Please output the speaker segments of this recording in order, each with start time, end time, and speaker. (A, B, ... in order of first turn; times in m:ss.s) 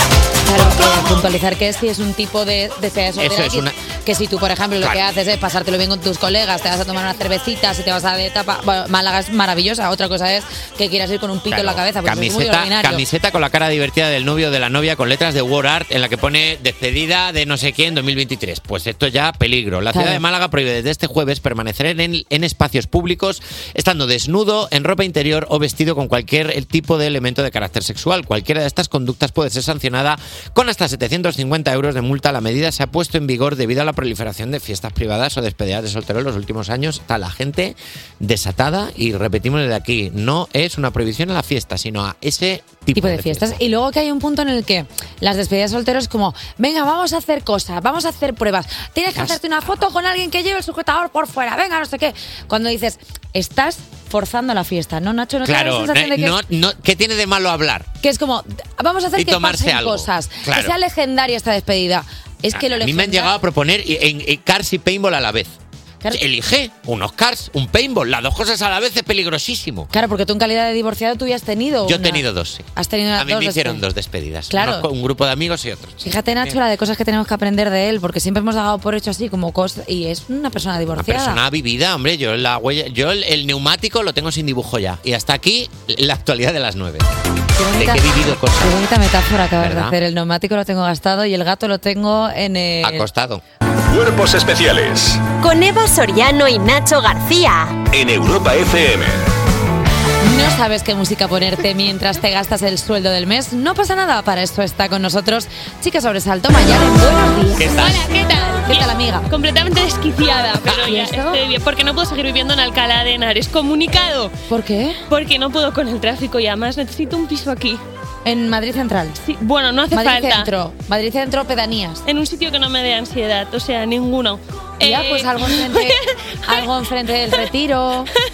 0:00.4-0:13.0 A
0:03.2-0:03.8 B
0:11.5-0:43.6 B
0:19.9-0:20.2 A
0:43.0-0:56.4 A
0:55.4-0:57.9 B
0:58.0-1:03.3 A
0:59.2-1:00.8 B
1:02.5-1:05.6 B
1:06.1-1:09.9 B
1:09.9-1:13.8 A
1:11.8-1:16.6 B
1:14.5-1:14.9 A
1:16.0-1:21.4 A
1:21.0-1:27.1 B
1:27.6-1:33.1 A
1:27.8-1:28.8 B
1:29.6-1:30.0 B
1:32.8-1:33.4 B
1:33.9-1:35.2 C
1:35.4-1:37.8 D
1:37.9-1:39.2 C
1:40.2-1:48.1 A
1:47.6-1:48.1 B
1:47.7-1:54.3 E
1:48.7-1:49.3 A
1:50.8-1:51.4 A
1:54.5-1:55.0 A
1:55.1-1:57.8 E
1:58.2-1:59.2 A
1:59.2-2:00.5 E
1:59.9-2:02.0 A
2:02.0-2:06.6 E
2:04.8-2:08.1 A